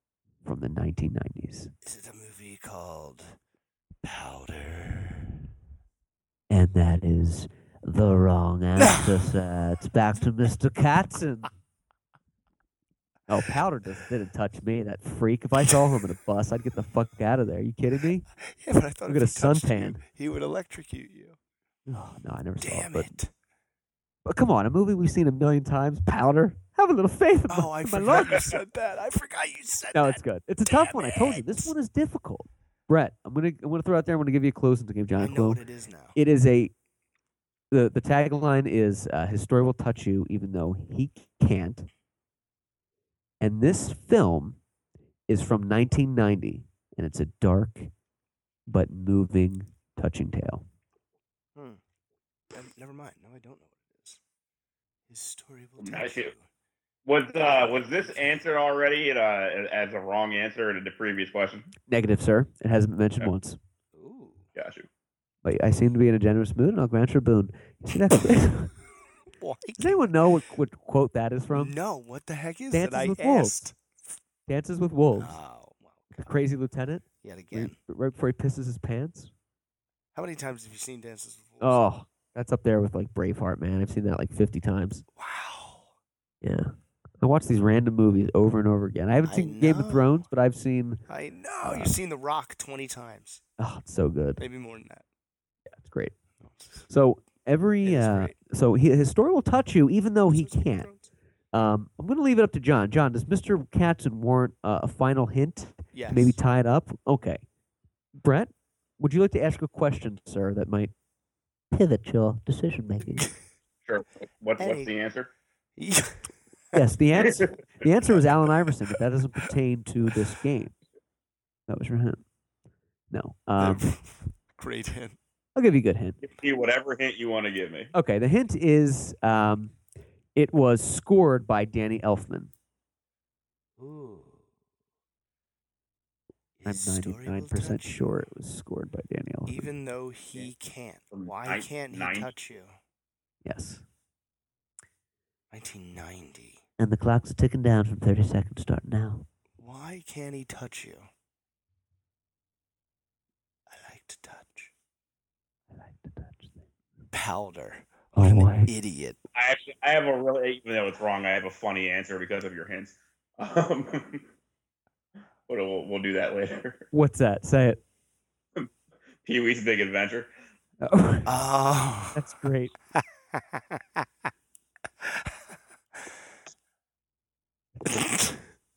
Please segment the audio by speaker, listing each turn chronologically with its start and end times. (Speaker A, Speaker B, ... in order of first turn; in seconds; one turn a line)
Speaker A: 0.4-1.7
Speaker B: 1.8-3.4
Speaker B: 4.0-5.4
Speaker A: 6.5-11.5
Speaker B: 8.8-9.2
Speaker A: 13.3-18.2
Speaker B: 18.4-21.4
Speaker A: 19.1-20.0
Speaker A: 21.9-23.2
Speaker B: 22.6-23.3
Speaker A: 24.2-28.6
Speaker B: 27.5-31.7
Speaker A: 29.9-35.6
Speaker B: 35.2-36.1
Speaker A: 36.1-36.7
Speaker A: 37.7-41.9
Speaker A: 43.4-44.6
Speaker A: 45.3-47.9
Speaker A: 48.7-50.6
Speaker B: 51.5-51.8
Speaker B: 52.5-54.2
Speaker B: 55.1-56.5
Speaker C: 55.8-56.3
Speaker C: 57.1-61.7
Speaker A: 61.9-63.6
Speaker B: 63.9-64.4
Speaker C: 64.5-64.9
Speaker A: 65.4-68.7
Speaker B: 69.3-70.1
Speaker A: 69.8-71.8
Speaker B: 71.5-73.8
Speaker A: 72.7-73.7
Speaker A: 74.5-75.4
Speaker B: 75.1-76.3
Speaker A: 76.2-79.3
Speaker B: 77.2-77.8
Speaker B: 80.1-81.8
Speaker A: 81.6-85.0
Speaker B: 85.2-85.9
Speaker A: 86.4-91.0
Speaker B: 89.2-90.2
Speaker B: 91.1-93.4
Speaker A: 91.6-91.9
Speaker A: 93.6-94.4
Speaker B: 94.4-95.0
Speaker A: 95.7-96.1
Speaker B: 96.4-96.9
Speaker A: 96.9-100.9
Speaker B: 97.8-98.4
Speaker B: 100.2-101.1
Speaker A: 101.5-107.4
Speaker B: 105.9-106.4
Speaker A: 108.2-110.9
Speaker A: 111.7-113.3
Speaker C: 113.9-115.3
Speaker B: 114.6-114.9
Speaker B: 115.8-116.8
Speaker A: 116.7-120.8
Speaker C: 117.2-117.5
Speaker A: 121.7-122.2
Speaker A: 123.1-123.8
Speaker B: 123.6-125.2
Speaker A: 125.5-126.2
Speaker C: 126.2-127.9
Speaker A: 127.9-129.7
Speaker A: 130.3-132.5
Speaker B: 133.8-134.4
Speaker B: 136.6-138.1
Speaker A: 136.6-139.7
Speaker B: 139.4-142.7
Speaker C: 141.1-142.3
Speaker A: 143.4-143.8
Speaker B: 145.5-146.6
Speaker A: 146.8-149.2
Speaker B: 149.6-151.1
Speaker B: 153.7-154.7
Speaker A: 155.7-156.6
Speaker B: 157.1-159.2
Speaker A: 158.1-158.7
Speaker C: 159.3-164.2
Speaker C: 165.5-166.9
Speaker A: 166.9-167.8
Speaker C: 169.2-170.3
Speaker A: 170.8-171.3
Speaker B: 171.2-172.2
Speaker A: 172.1-172.7
Speaker B: 172.9-174.1
Speaker B: 175.0-175.3
Speaker B: 177.8-178.5